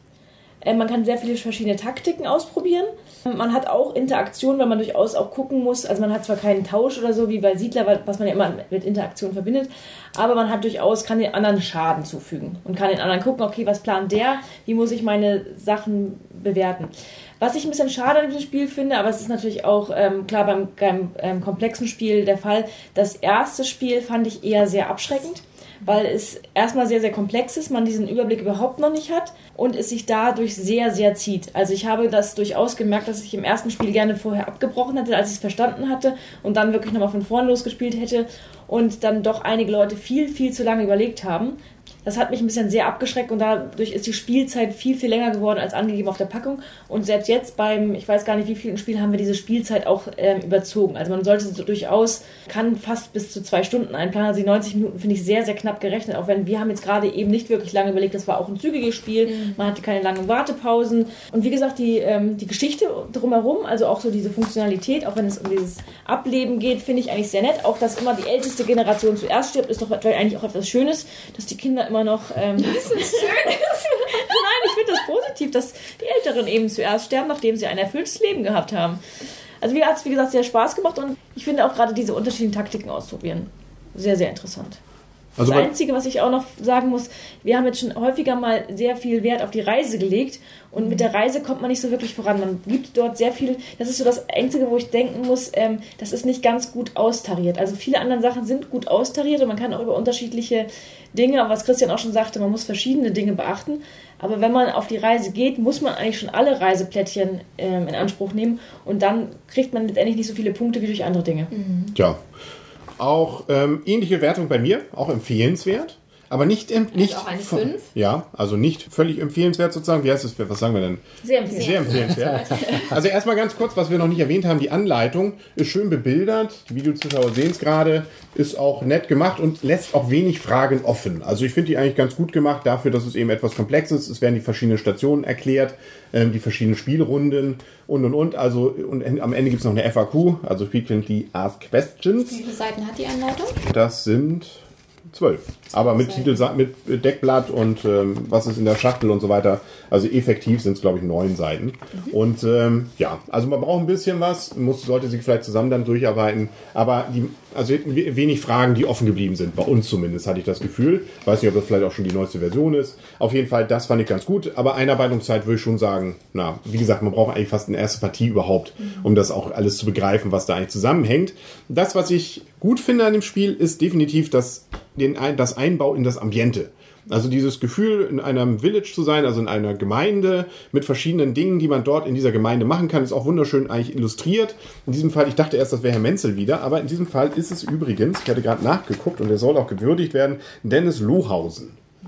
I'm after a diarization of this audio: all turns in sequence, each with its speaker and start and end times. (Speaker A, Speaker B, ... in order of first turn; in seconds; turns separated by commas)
Speaker A: 0.6-79.0, Speaker B: 59.3-59.7, Speaker B: 72.6-74.4, Speaker A: 79.6-84.8, Speaker C: 85.4-85.7, Speaker A: 85.4-111.5, Speaker B: 90.8-91.0, Speaker B: 111.5-111.9, Speaker C: 111.9-112.2, Speaker C: 113.0-142.4, Speaker B: 116.9-117.9, Speaker A: 121.2-122.8, Speaker B: 142.2-143.6, Speaker C: 143.6-144.6, Speaker C: 145.1-191.8, Speaker B: 145.8-146.4, Speaker B: 168.8-169.1